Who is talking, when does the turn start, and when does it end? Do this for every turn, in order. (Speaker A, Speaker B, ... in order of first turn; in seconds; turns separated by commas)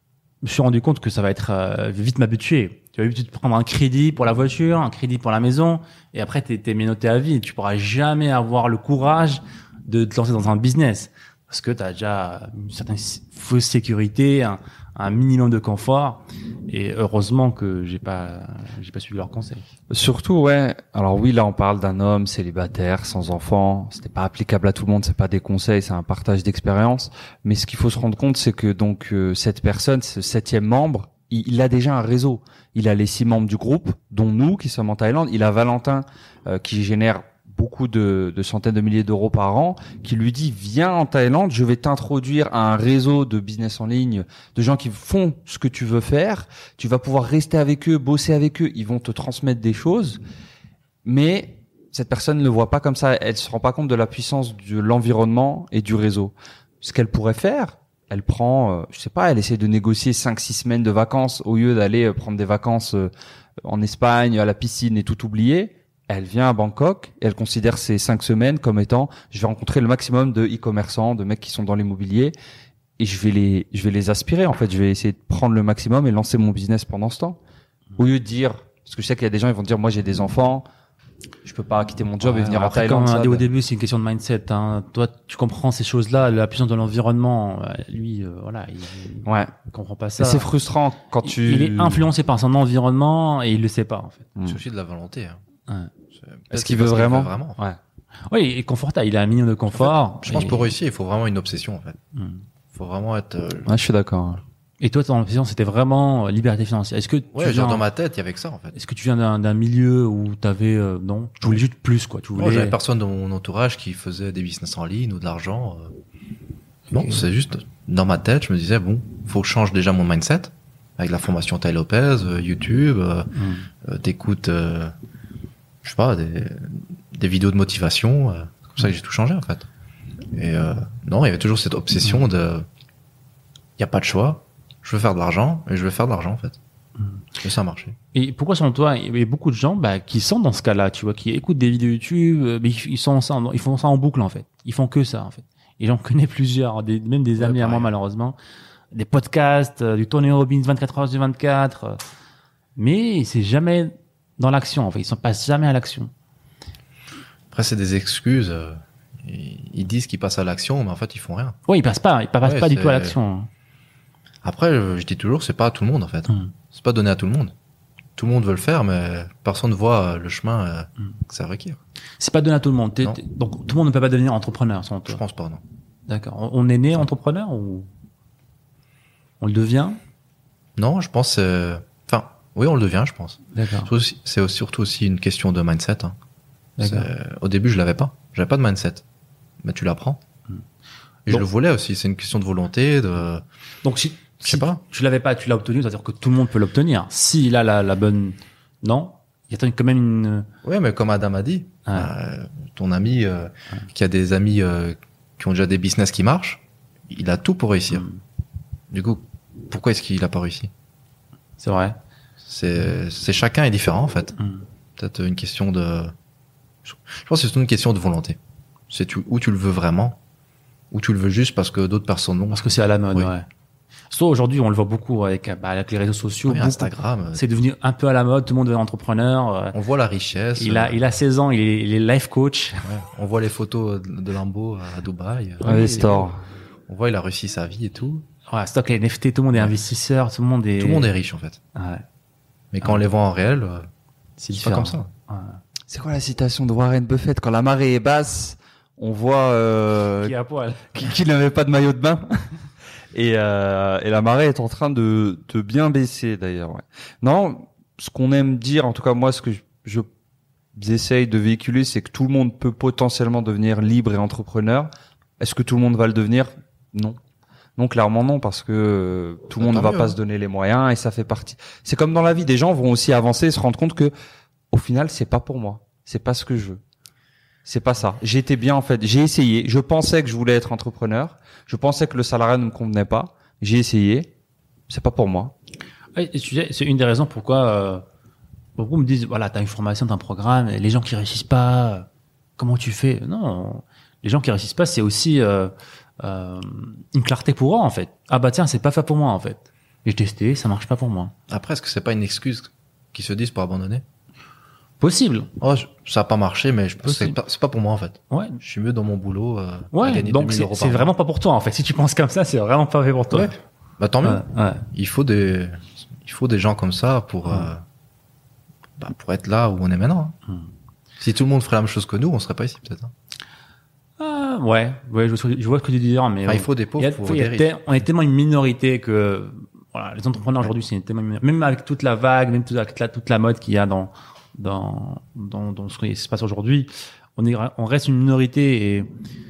Speaker A: 0.4-19.6, Speaker B: 19.9-50.2, Speaker B: 51.0-63.1, Speaker B: 63.6-72.4, Speaker B: 73.0-77.4, Speaker B: 78.0-80.7, Speaker B: 81.5-83.5, Speaker A: 82.2-90.5, Speaker B: 89.3-89.5, Speaker B: 90.2-92.1, Speaker A: 91.2-94.3, Speaker C: 94.5-95.4, Speaker C: 96.1-97.6, Speaker B: 96.5-97.3, Speaker A: 98.3-100.7, Speaker C: 99.7-102.0, Speaker A: 102.1-102.4, Speaker C: 102.7-103.8, Speaker B: 103.7-104.4, Speaker A: 104.8-107.8, Speaker C: 107.3-108.8, Speaker A: 108.8-112.8, Speaker C: 112.4-116.0, Speaker C: 116.9-124.9, Speaker A: 116.9-117.2, Speaker A: 123.3-123.7, Speaker C: 125.8-129.7, Speaker C: 130.3-132.7, Speaker C: 133.8-136.6, Speaker C: 137.4-138.0, Speaker A: 138.1-148.4, Speaker C: 147.4-147.9, Speaker A: 148.9-152.0, Speaker A: 152.8-156.1, Speaker C: 157.5-161.6, Speaker A: 161.7-163.5, Speaker C: 162.4-163.2, Speaker C: 164.4-167.5, Speaker C: 168.2-171.8, Speaker A: 172.2-175.2, Speaker C: 175.1-175.6, Speaker A: 176.1-177.9, Speaker A: 179.4-180.0, Speaker C: 180.8-186.2, Speaker A: 183.5-183.9, Speaker A: 186.8-187.1, Speaker C: 186.8-189.0, Speaker C: 189.6-190.2, Speaker C: 191.3-193.4, Speaker A: 193.8-200.5, Speaker C: 194.4-194.8, Speaker C: 200.6-208.1, Speaker A: 207.9-208.2, Speaker C: 208.9-210.7, Speaker A: 211.6-212.0, Speaker C: 212.4-214.4, Speaker A: 214.4-214.6, Speaker C: 215.0-216.1, Speaker C: 216.8-218.4, Speaker C: 218.9-220.2, Speaker C: 220.9-223.3, Speaker A: 222.5-223.5, Speaker A: 224.1-229.8, Speaker C: 226.5-227.4, Speaker C: 229.7-231.0, Speaker A: 230.6-232.9, Speaker C: 232.8-235.8, Speaker A: 235.6-236.3, Speaker B: 235.6-236.4, Speaker C: 236.9-238.2, Speaker A: 238.5-241.1, Speaker C: 240.8-241.6, Speaker A: 241.8-242.0, Speaker C: 242.7-243.9, Speaker A: 244.4-245.6, Speaker C: 244.5-245.1, Speaker B: 245.9-250.3, Speaker A: 250.2-250.9, Speaker B: 250.9-252.5, Speaker B: 253.1-260.1, Speaker B: 260.8-267.2, Speaker B: 267.8-274.1, Speaker C: 269.6-270.2, Speaker B: 274.7-276.8, Speaker B: 277.6-284.3, Speaker B: 284.9-285.5, Speaker A: 286.1-288.0, Speaker A: 288.8-292.1, Speaker A: 292.6-301.3, Speaker C: 301.5-304.0, Speaker A: 305.0-305.5, Speaker C: 305.6-311.1, Speaker A: 307.0-307.4, Speaker A: 308.3-308.6, Speaker A: 309.9-313.6, Speaker C: 313.3-317.8, Speaker A: 314.2-314.9, Speaker C: 319.0-320.4, Speaker C: 321.2-323.1, Speaker A: 324.2-339.1, Speaker C: 326.5-327.8